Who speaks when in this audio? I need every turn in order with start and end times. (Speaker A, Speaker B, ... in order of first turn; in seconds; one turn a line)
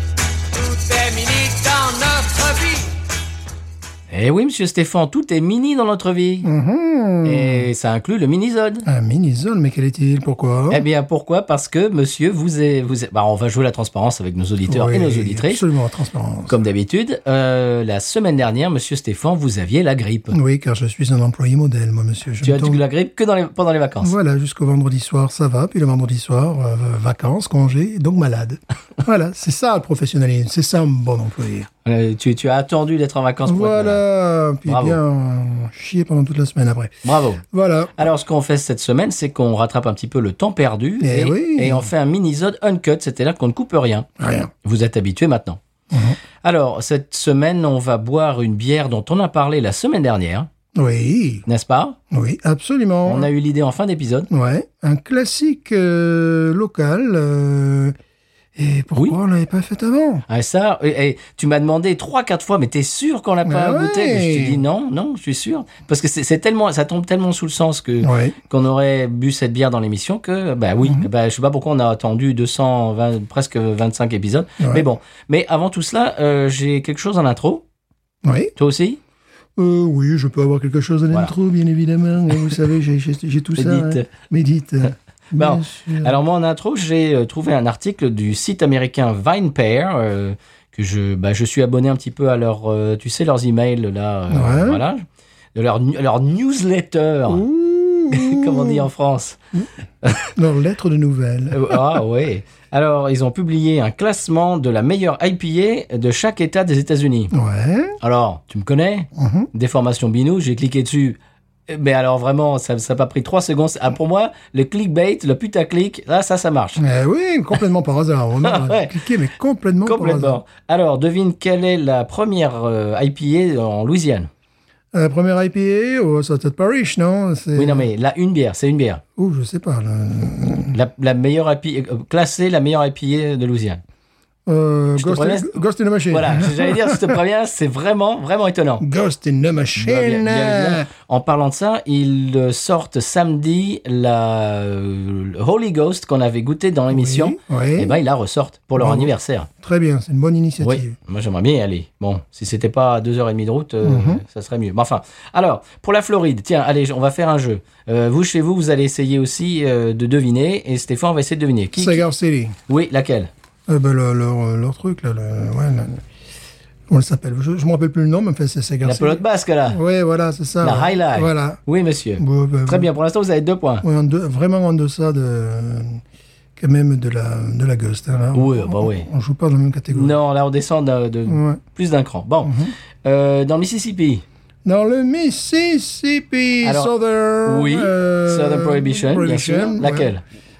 Speaker A: 0.5-2.9
Speaker A: 4.1-6.5
Speaker B: 6.4-7.7
Speaker A: 7.2-8.8
Speaker B: 8.8-10.8
Speaker A: 10.7-15.6
Speaker B: 14.7-16.5
Speaker A: 16.5-20.4
Speaker B: 20.3-22.8
Speaker A: 22.4-24.1
Speaker B: 24.0-31.7
Speaker A: 31.8-34.0
Speaker B: 33.4-37.9
Speaker A: 34.6-35.0
Speaker A: 37.0-37.4
Speaker A: 38.0-44.1
Speaker B: 41.0-41.9
Speaker B: 44.2-44.5
Speaker A: 44.6-45.6
Speaker B: 45.9-46.2
Speaker A: 46.4-50.5
Speaker B: 50.7-51.4
Speaker A: 51.5-52.0
Speaker B: 52.1-53.3
Speaker A: 53.0-54.3
Speaker B: 54.3-57.9
Speaker B: 58.5-60.2
Speaker A: 60.3-77.6
Speaker B: 63.4-64.6
Speaker B: 68.0-68.3
Speaker B: 74.6-74.8
Speaker B: 78.2-78.5
Speaker A: 78.5-79.0
Speaker B: 79.5-86.2
Speaker A: 83.5-84.1
Speaker A: 85.3-95.0
Speaker B: 94.3-94.8
Speaker A: 95.5-97.4
Speaker B: 97.3-98.9
Speaker A: 98.1-99.4
Speaker A: 100.0-100.3
Speaker B: 100.3-102.0
Speaker A: 101.5-107.3
Speaker B: 107.3-108.0
Speaker A: 108.0-111.2
Speaker B: 109.1-109.5
Speaker A: 111.7-116.8
Speaker B: 116.8-120.4
Speaker A: 118.4-118.9
Speaker A: 119.8-124.3
Speaker B: 124.9-127.9
Speaker A: 127.5-129.0
Speaker B: 129.2-130.8
Speaker A: 130.7-133.8
Speaker B: 134.4-137.2
Speaker A: 135.0-138.8
Speaker B: 138.8-140.9
Speaker A: 139.8-149.5
Speaker B: 146.9-147.9
Speaker B: 148.8-150.9
Speaker A: 150.6-162.0
Speaker B: 153.8-154.2
Speaker B: 161.7-162.6
Speaker A: 162.7-163.3
Speaker B: 163.7-166.0
Speaker B: 166.9-171.6
Speaker A: 168.8-169.8
Speaker A: 170.6-173.8
Speaker B: 172.2-172.9
Speaker B: 173.8-176.0
Speaker B: 176.6-180.2
Speaker A: 178.3-179.1
Speaker A: 179.9-184.2
Speaker B: 181.3-181.6
Speaker B: 182.4-182.7
Speaker B: 184.6-190.1
Speaker A: 186.6-186.9
Speaker A: 187.4-190.2